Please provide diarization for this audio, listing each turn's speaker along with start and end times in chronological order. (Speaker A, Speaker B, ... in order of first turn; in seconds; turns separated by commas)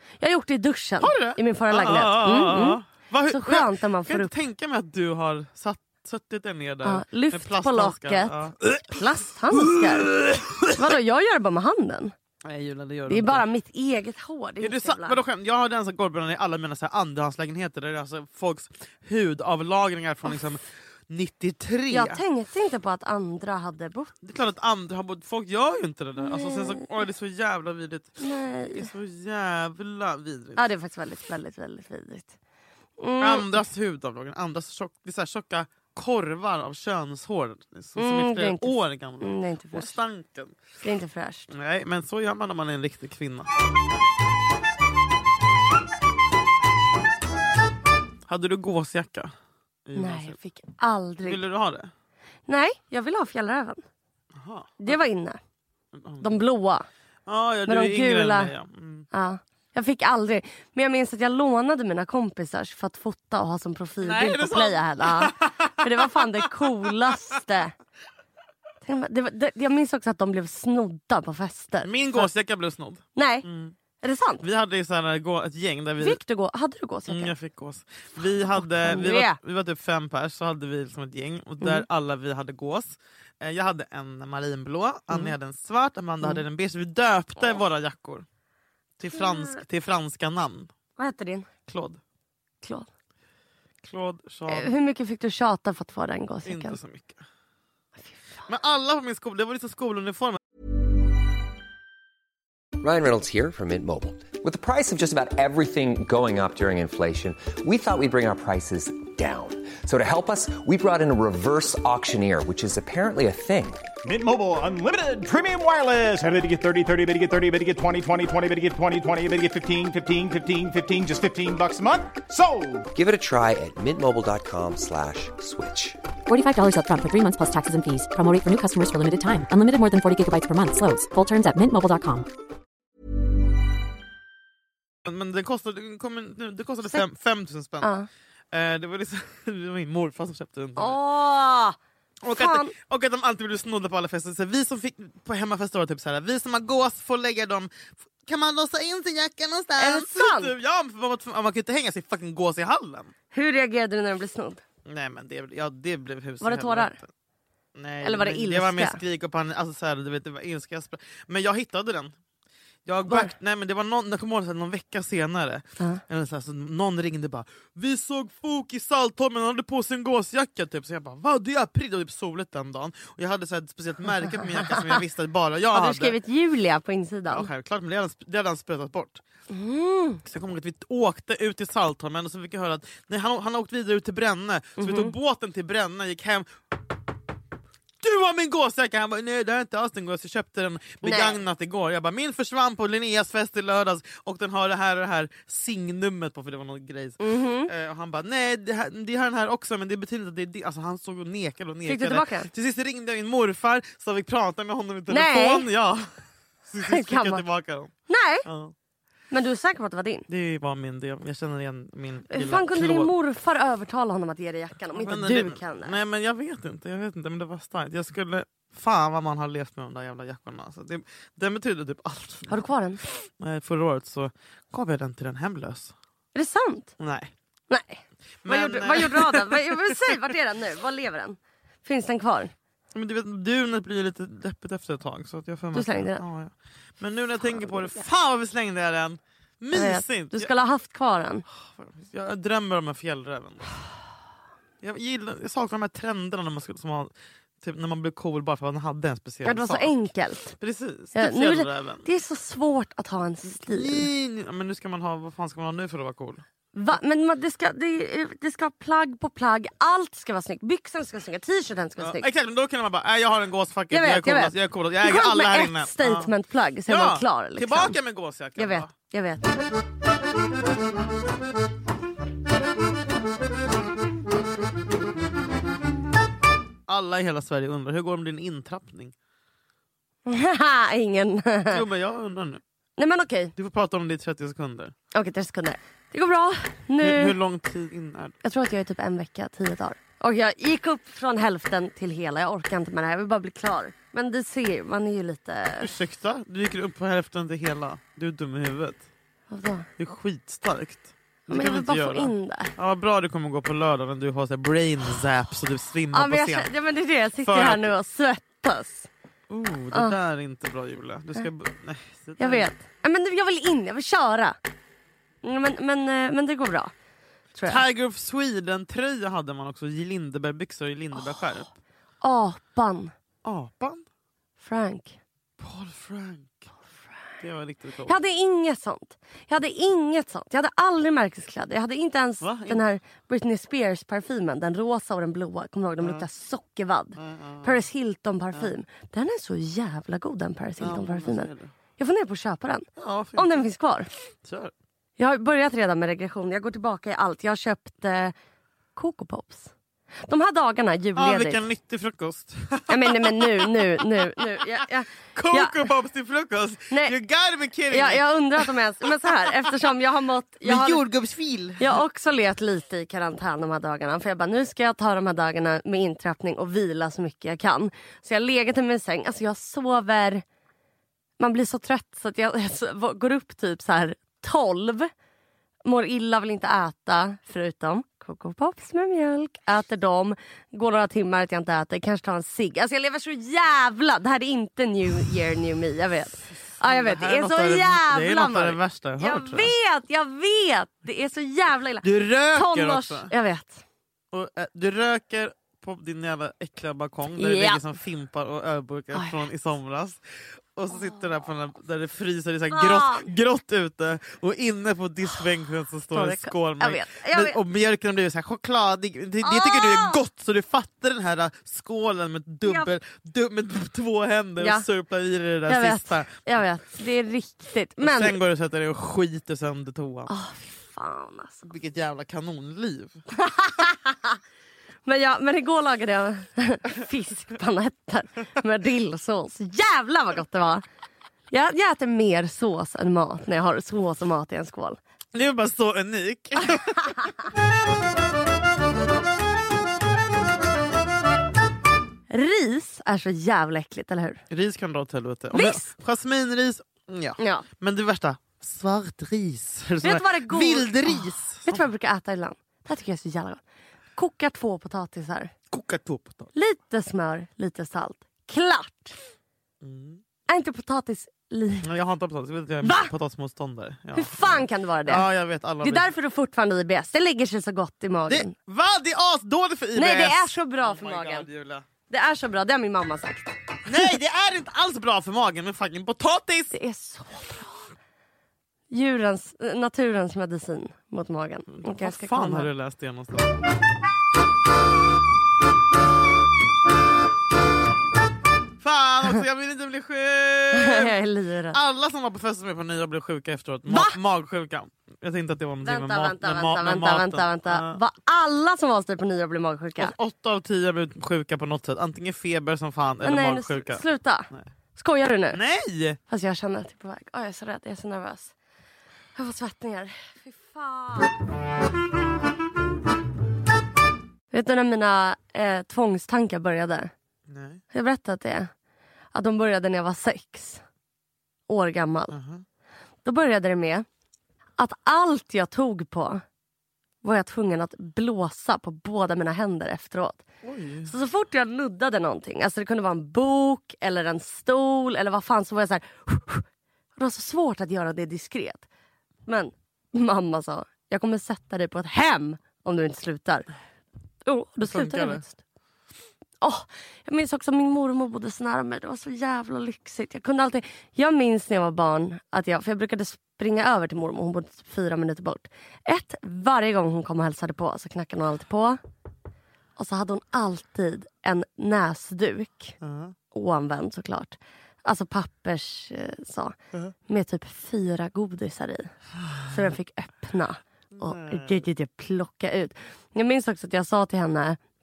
Speaker A: 0.2-4.3, Speaker B: 1.0-8.9, Speaker A: 6.8-8.3, Speaker A: 8.9-10.1, Speaker B: 9.5-10.7, Speaker A: 10.7-12.1, Speaker B: 12.4-13.4, Speaker A: 13.1-15.2, Speaker B: 14.6-22.2, Speaker A: 21.9-24.1, Speaker B: 24.2-30.6, Speaker A: 26.2-26.9, Speaker A: 28.2-28.9, Speaker A: 30.6-32.3, Speaker A: 33.0-33.5, Speaker B: 33.2-40.6, Speaker A: 38.0-40.0, Speaker A: 40.8-41.5, Speaker B: 41.5-43.5, Speaker B: 48.3-49.3, Speaker B: 49.9-50.4, Speaker A: 50.0-51.4, Speaker B: 51.2-51.9, Speaker A: 52.5-53.8, Speaker B: 54.3-55.0, Speaker A: 54.8-55.4, Speaker B: 55.9-56.4, Speaker A: 56.2-56.9, Speaker B: 57.3-59.1, Speaker A: 57.7-58.5, Speaker A: 59.1-67.7, Speaker B: 64.0-66.9, Speaker A: 68.8-72.3, Speaker B: 71.8-73.7, Speaker A: 73.2-73.5, Speaker A: 74.0-74.4, Speaker B: 74.4-76.2, Speaker A: 76.0-77.3, Speaker B: 77.1-88.2, Speaker A: 78.5-79.4, Speaker B: 89.0-90.7, Speaker A: 89.1-89.6, Speaker A: 91.0-91.5, Speaker B: 91.7-92.0, Speaker A: 92.6-92.9, Speaker B: 93.8-94.7, Speaker A: 94.5-96.8, Speaker B: 96.5-97.2, Speaker B: 98.5-100.4, Speaker C: 102.8-113.9, Speaker D: 114.0-122.9, Speaker C: 122.9-126.0, Speaker E: 126.3-132.3, Speaker B: 135.0-137.9, Speaker A: 137.8-138.1, Speaker B: 138.5-141.0, Speaker A: 140.8-141.8, Speaker B: 142.2-153.1, Speaker A: 142.3-142.7, Speaker A: 149.8-150.5, Speaker A: 153.3-154.6, Speaker B: 154.8-157.1, Speaker A: 156.4-156.9, Speaker B: 157.7-162.1, Speaker A: 158.0-159.0, Speaker B: 162.8-176.1, Speaker A: 163.1-163.3, Speaker A: 174.6-174.9, Speaker A: 175.7-177.5, Speaker B: 177.3-179.2, Speaker A: 179.5-180.2, Speaker B: 180.2-186.5, Speaker A: 184.8-185.1, Speaker B: 188.0-206.1, Speaker A: 191.0-191.4, Speaker A: 197.2-197.7, Speaker A: 201.9-202.5, Speaker A: 205.1-205.7, Speaker B: 206.7-207.9, Speaker A: 206.8-207.4, Speaker A: 208.1-208.4, Speaker B: 208.4-208.7, Speaker A: 209.3-210.2, Speaker B: 210.3-213.1, Speaker A: 212.3-215.9, Speaker B: 214.9-225.9, Speaker A: 222.5-223.0, Speaker A: 226.3-226.9, Speaker B: 227.0-227.3, Speaker A: 227.7-232.5, Speaker B: 228.4-230.2, Speaker B: 232.9-240.5, Speaker A: 235.7-236.2, Speaker A: 237.5-238.0, Speaker A: 239.7-241.4, Speaker B: 241.5-243.7, Speaker B: 244.8-250.1, Speaker A: 249.4-250.5, Speaker B: 250.6-252.0, Speaker A: 251.1-254.1, Speaker B: 253.5-256.4, Speaker A: 256.7-262.2, Speaker B: 262.0-266.3, Speaker A: 263.9-268.0, Speaker B: 266.9-268.9, Speaker A: 268.6-269.6, Speaker B: 276.9-279.1, Speaker A: 280.2-281.8, Speaker B: 281.7-282.6, Speaker A: 283.0-283.5, Speaker B: 283.6-284.9, Speaker A: 285.1-287.4, Speaker B: 287.0-288.4, Speaker A: 288.4-295.9, Speaker B: 295.8-299.0, Speaker A: 299.5-299.9, Speaker B: 300.0-306.7, Speaker A: 301.5-302.7, Speaker A: 306.1-309.1, Speaker B: 307.4-307.9, Speaker B: 309.5-312.7, Speaker A: 312.4-314.6, Speaker A: 315.4-316.9, Speaker A: 317.5-317.8, Speaker B: 317.6-321.7, Speaker A: 322.2-323.1, Speaker B: 323.4-324.0, Speaker A: 324.6-325.2, Speaker B: 325.6-326.7, Speaker B: 327.4-328.1, Speaker A: 328.1-344.1, Speaker B: 332.4-332.8, Speaker B: 336.0-336.2, Speaker B: 337.2-337.8, Speaker B: 340.8-341.7, Speaker B: 343.0-343.6, Speaker B: 344.4-344.7, Speaker A: 345.2-348.3, Speaker A: 348.9-349.7, Speaker A: 350.2-351.6, Speaker B: 351.1-354.8, Speaker A: 352.9-355.9, Speaker B: 355.3-359.7, Speaker A: 356.9-357.1, Speaker A: 357.9-361.0, Speaker B: 360.6-362.0, Speaker A: 361.8-370.4, Speaker A: 371.4-375.1, Speaker A: 375.8-393.8, Speaker B: 386.5-389.7, Speaker B: 392.0-393.3, Speaker B: 394.3-400.2, Speaker A: 397.3-397.8, Speaker B: 400.8-416.4, Speaker A: 400.9-401.2, Speaker A: 402.7-403.3, Speaker A: 406.1-407.6, Speaker A: 409.4-410.2, Speaker A: 412.6-412.9, Speaker A: 415.7-418.4, Speaker B: 418.0-420.3, Speaker A: 420.3-421.7, Speaker B: 421.6-423.2, Speaker A: 423.4-424.4, Speaker A: 425.0-430.8, Speaker A: 431.5-435.0, Speaker B: 435.3-437.3, Speaker A: 442.3-444.4, Speaker B: 444.5-451.8, Speaker A: 445.5-445.9, Speaker A: 447.4-447.6, Speaker A: 450.0-453.6, Speaker A: 454.1-455.5, Speaker B: 455.7-456.5, Speaker A: 456.5-459.2, Speaker B: 459.8-460.2, Speaker A: 460.5-461.9, Speaker B: 461.8-466.1, Speaker A: 462.8-463.1, Speaker A: 464.1-465.2, Speaker A: 465.8-468.5, Speaker B: 468.3-471.8, Speaker A: 469.9-471.5, Speaker A: 472.1-473.5, Speaker B: 473.9-476.7, Speaker A: 476.7-477.9, Speaker A: 478.9-482.7, Speaker B: 481.7-483.5, Speaker B: 488.8-491.1, Speaker A: 490.7-491.8, Speaker B: 491.7-498.0, Speaker A: 493.9-494.2, Speaker A: 495.8-500.1, Speaker B: 500.0-504.6, Speaker A: 503.2-505.6, Speaker B: 505.5-506.2, Speaker A: 506.3-508.5, Speaker A: 509.4-511.3, Speaker A: 514.5-517.1, Speaker B: 517.5-517.8, Speaker A: 517.9-518.7, Speaker A: 519.3-520.8, Speaker A: 521.7-522.3, Speaker B: 522.3-522.6, Speaker A: 523.2-524.0, Speaker A: 524.8-526.4, Speaker A: 527.2-530.4, Speaker B: 530.6-531.1, Speaker A: 531.1-536.6, Speaker A: 537.2-538.9, Speaker A: 539.5-543.7, Speaker A: 544.4-545.5, Speaker B: 544.8-545.4, Speaker A: 546.6-559.0, Speaker A: 560.0-563.0, Speaker B: 563.0-563.3, Speaker A: 563.5-566.8, Speaker A: 567.3-569.1, Speaker B: 569.5-569.7, Speaker A: 569.6-574.8, Speaker B: 571.1-571.8